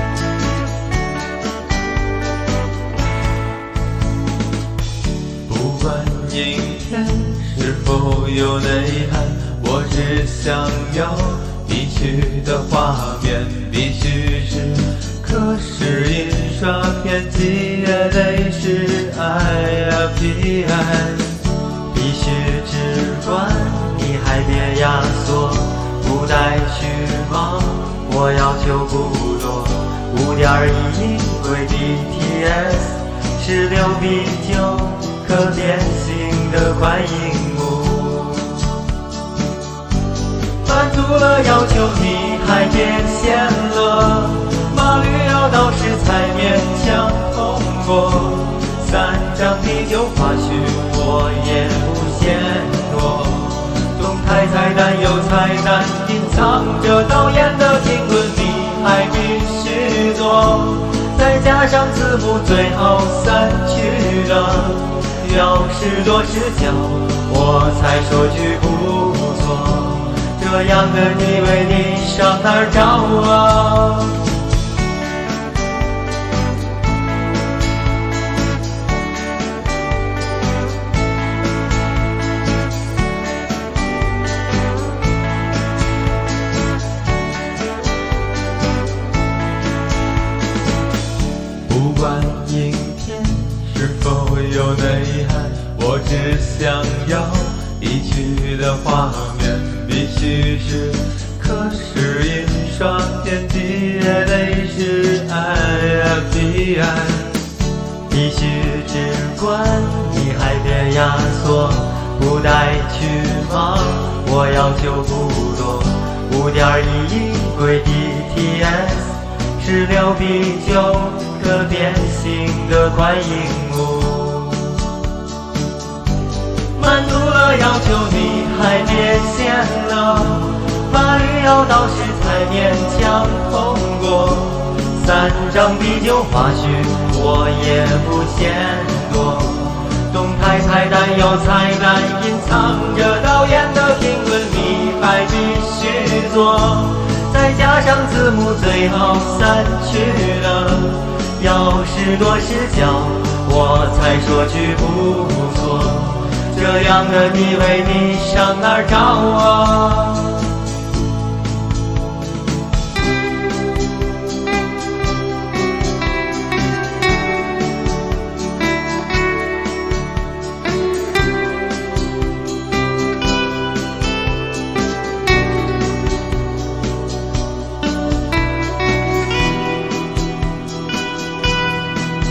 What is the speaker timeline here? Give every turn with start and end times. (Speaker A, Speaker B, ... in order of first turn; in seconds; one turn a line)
Speaker A: 5.5-38.7
Speaker A: 40.6-74.3
Speaker A: 91.7-107.4
Speaker A: 108.1-124.8
Speaker A: 126.8-160.5